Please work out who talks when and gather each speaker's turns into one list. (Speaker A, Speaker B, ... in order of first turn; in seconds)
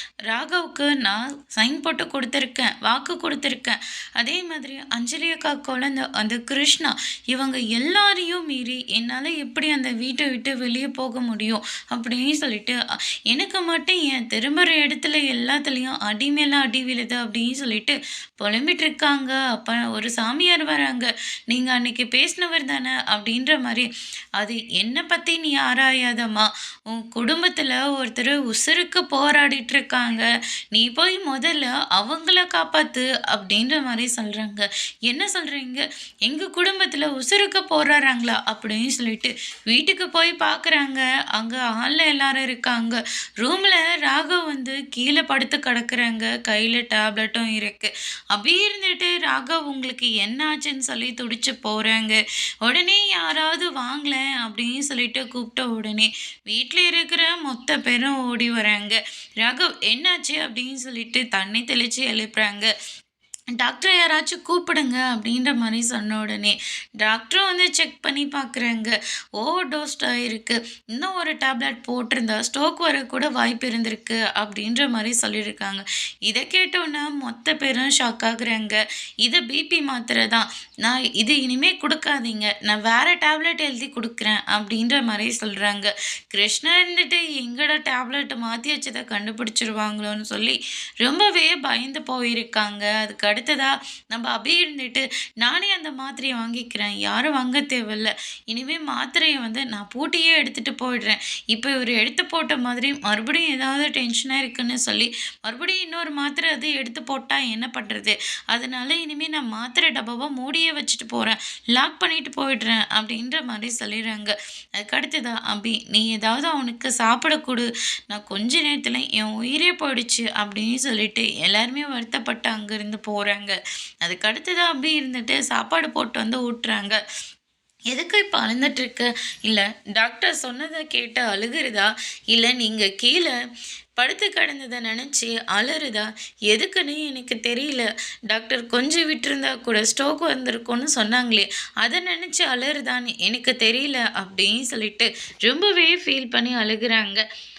Speaker A: 0.3-12.8, 13.3-62.7, 63.5-127.0, 127.9-133.3, 134.0-147.2